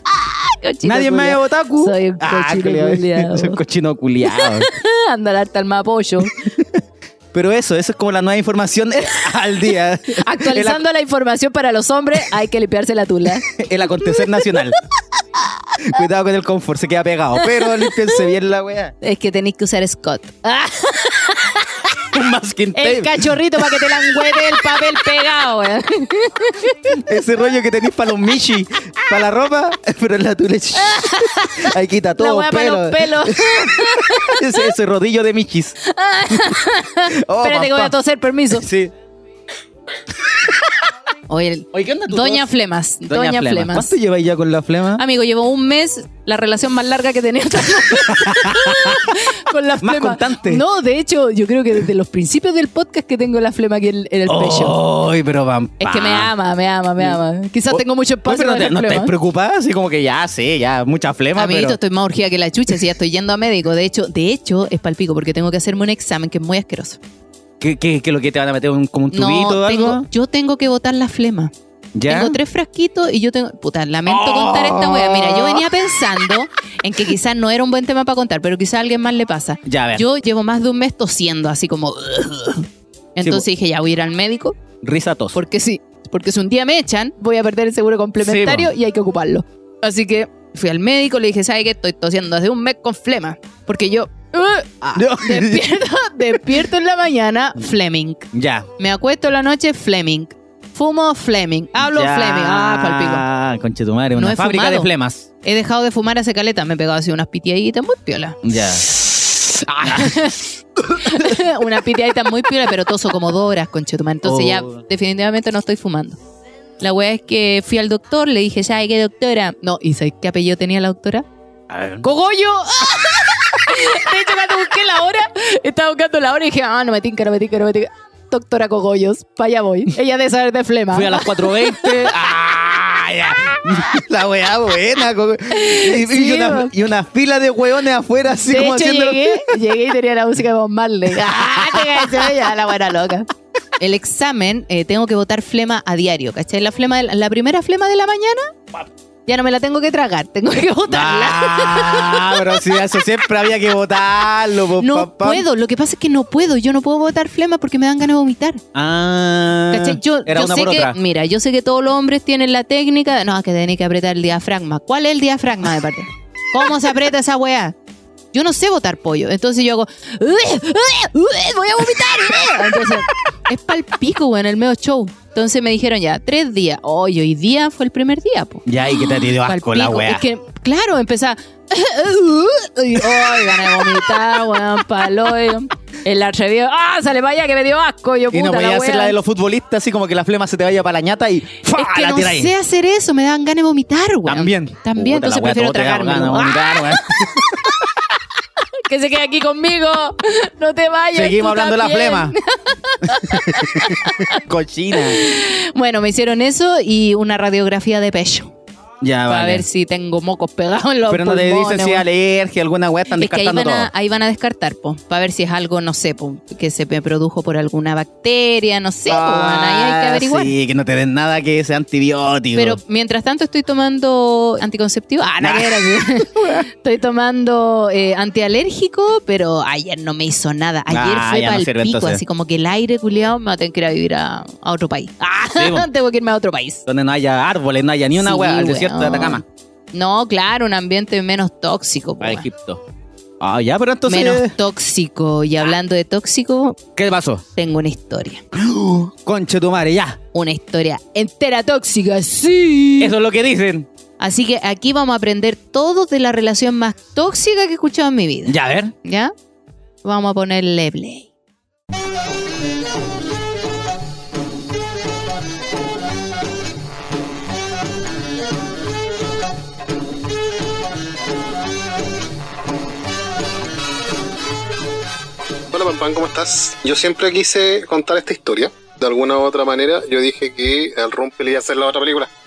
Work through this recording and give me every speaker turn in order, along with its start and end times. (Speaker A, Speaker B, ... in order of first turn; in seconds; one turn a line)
Speaker A: 0.2-3.6
Speaker B: 0.8-4.7
Speaker A: 4.3-6.4
Speaker B: 6.4-10.8
Speaker A: 10.2-13.4
Speaker B: 13.4-14.8
Speaker A: 14.0-14.6
Speaker B: 15.8-18.9
Speaker A: 17.4-18.2
Speaker A: 19.0-21.9
Speaker B: 22.1-24.7
Speaker A: 22.7-27.0
Speaker B: 26.9-35.8
Speaker A: 30.8-34.7
Speaker A: 35.8-38.6
Speaker B: 37.1-38.0
Speaker B: 38.5-38.9
Speaker A: 41.3-43.9
Speaker B: 41.7-42.5
Speaker B: 43.1-45.0
Speaker A: 45.0-54.8
Speaker B: 48.0-49.2
Speaker B: 49.8-50.6
Speaker B: 54.3-56.3
Speaker A: 55.8-59.1
Speaker B: 57.7-61.8
Speaker A: 61.4-67.0
Speaker B: 67.6-70.1
Speaker A: 69.1-71.5
Speaker B: 72.0-72.3
Speaker A: 72.1-82.6
Speaker B: 74.0-76.1
Speaker B: 79.6-80.0
Speaker A: 83.2-84.5
Speaker B: 83.2-83.5
Speaker B: 84.8-85.4
Speaker A: 85.3-103.2
Speaker B: 88.2-88.7
Speaker B: 94.9-95.8
Speaker B: 98.3-98.7
Speaker B: 101.8-105.3
Speaker A: 104.2-104.9
Speaker A: 105.4-108.4
Speaker B: 108.4-111.4
Speaker A: 109.6-116.2
Speaker B: 114.2-114.8
Speaker A: 116.8-121.2
Speaker B: 121.7-122.0
Speaker A: 122.0-132.2
Speaker B: 130.9-139.6
Speaker A: 135.5-136.7
Speaker A: 138.4-148.5
Speaker B: 141.1-142.4
Speaker A: 149.3-153.1
Speaker B: 150.9-155.4
Speaker A: 154.8-158.6
Speaker B: 158.7-161.0
Speaker A: 159.7-167.8
Speaker A: 168.3-189.2
Speaker B: 172.4-172.9
Speaker B: 178.7-180.2
Speaker B: 183.0-184.8
Speaker B: 188.3-192.5
Speaker A: 191.7-197.4
Speaker B: 194.2-197.9
Speaker A: 198.9-204.4
Speaker B: 201.1-202.3
Speaker B: 203.1-205.2
Speaker A: 204.9-208.5
Speaker B: 209.0-209.6
Speaker A: 209.3-212.0
Speaker B: 211.1-213.9
Speaker A: 213.1-220.5
Speaker B: 219.1-222.8
Speaker A: 222.5-236.8
Speaker B: 225.4-226.6
Speaker B: 230.9-232.2
Speaker B: 235.5-235.9
Speaker B: 236.8-239.4
Speaker A: 238.1-239.4
Speaker A: 239.9-242.4
Speaker B: 242.2-242.8
Speaker B: 243.4-244.5
Speaker A: 244.1-246.8
Speaker B: 246.9-247.4
Speaker A: 247.6-248.4
Speaker B: 248.5-250.2
Speaker A: 250.3-253.1
Speaker B: 253.0-253.9
Speaker A: 254.2-259.3
Speaker B: 258.5-258.9
Speaker A: 260.0-261.3
Speaker C: 275.7-282.3